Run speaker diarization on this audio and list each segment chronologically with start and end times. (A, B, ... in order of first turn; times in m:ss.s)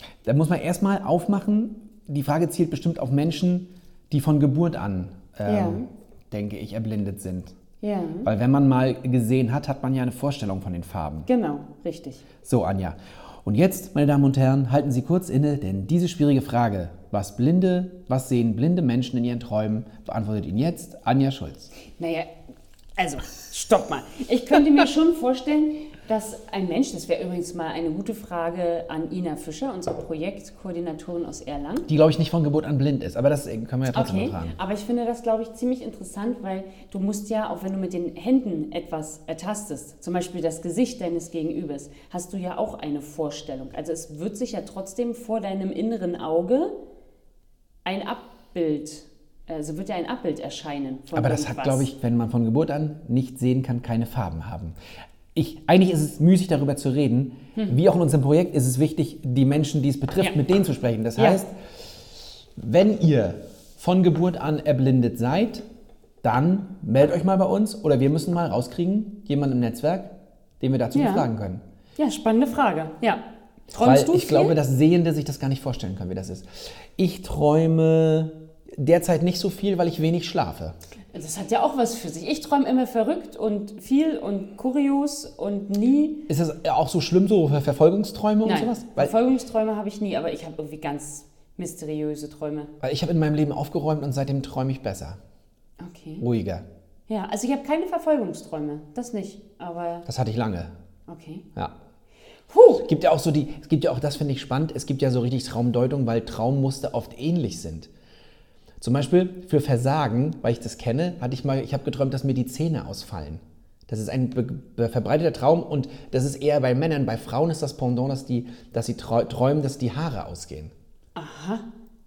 0:00.2-0:07.5 A
0:05.4-0:05.8 B
0:07.8-0:08.3 B
0:08.2-0:11.3 A
0:11.3-0:12.2 B
0:12.4-0:21.7 A
0:22.0-0:22.3 B
0:23.0-0:31.9 B
0:31.9-0:34.6 A
0:33.9-0:46.7 B
0:47.8-0:51.9 B
0:51.1-0:54.8 A
0:55.3-1:01.5 A
1:02.6-1:05.6 A
1:06.2-1:11.6 A
1:10.9-1:11.2 B
1:12.0-1:14.6 B
1:13.8-1:20.7 A
1:21.1-1:26.2 B
1:26.3-1:29.1 A
1:28.4-1:32.7 B
1:32.8-1:35.2 A
1:35.8-1:36.2 B
1:36.2-1:36.6 A
1:37.1-1:40.1 B
1:40.0-1:40.7 A
1:41.1-1:41.4 B
1:42.5-1:42.8 B
1:42.8-1:47.9 A
1:48.8-2:00.7 A
2:01.2-2:01.6 B